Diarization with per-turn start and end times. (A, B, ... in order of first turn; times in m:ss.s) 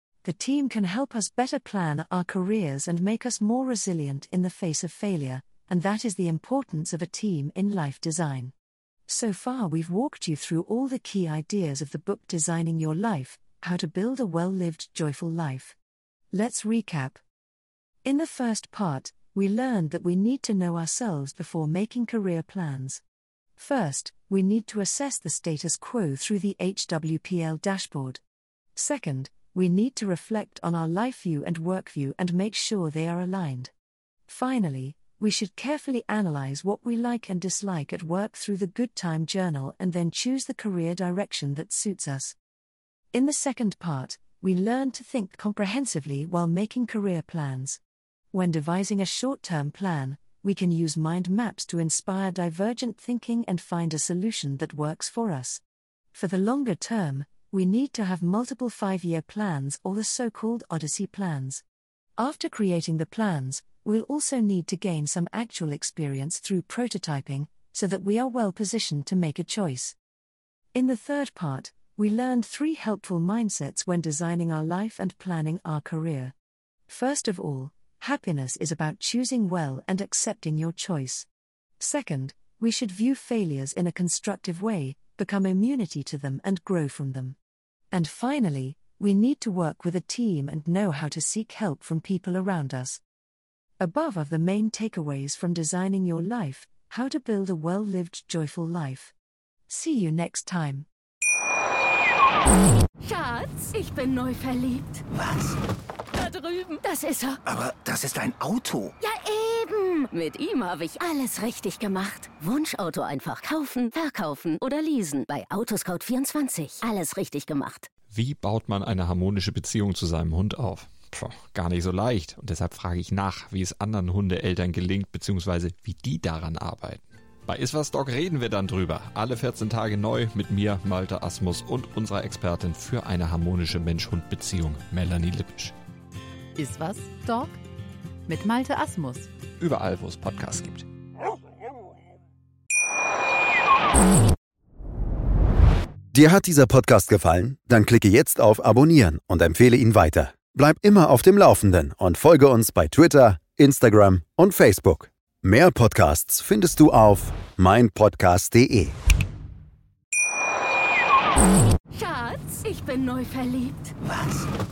0:00.2-0:08.5 A
0:09.1-0:15.8 A
0:16.3-0:17.2 A
0:18.0-0:23.0 A
0:23.6-0:28.2 A
0:28.8-0:33.7 A
0:34.3-0:42.4 A
0:43.1-0:47.8 A
0:48.3-0:55.6 A
0:56.1-1:01.6 A
1:02.2-1:10.0 A
1:10.7-1:16.3 A
1:16.9-1:21.3 A
1:21.8-1:27.4 A
1:27.9-1:33.0 A
1:33.8-1:39.1 A
1:39.7-1:40.9 A
1:43.0-1:45.0 B
1:45.1-1:45.6 C
1:46.1-1:47.4 B
1:47.4-1:48.9 C
1:49.0-1:57.9 B
1:58.1-2:15.7 D
2:16.6-2:17.6 E
2:18.3-2:19.3 E
2:19.6-2:20.8 D
2:26.1-2:38.9 F
2:41.9-2:43.9 B
2:44.0-2:44.4 C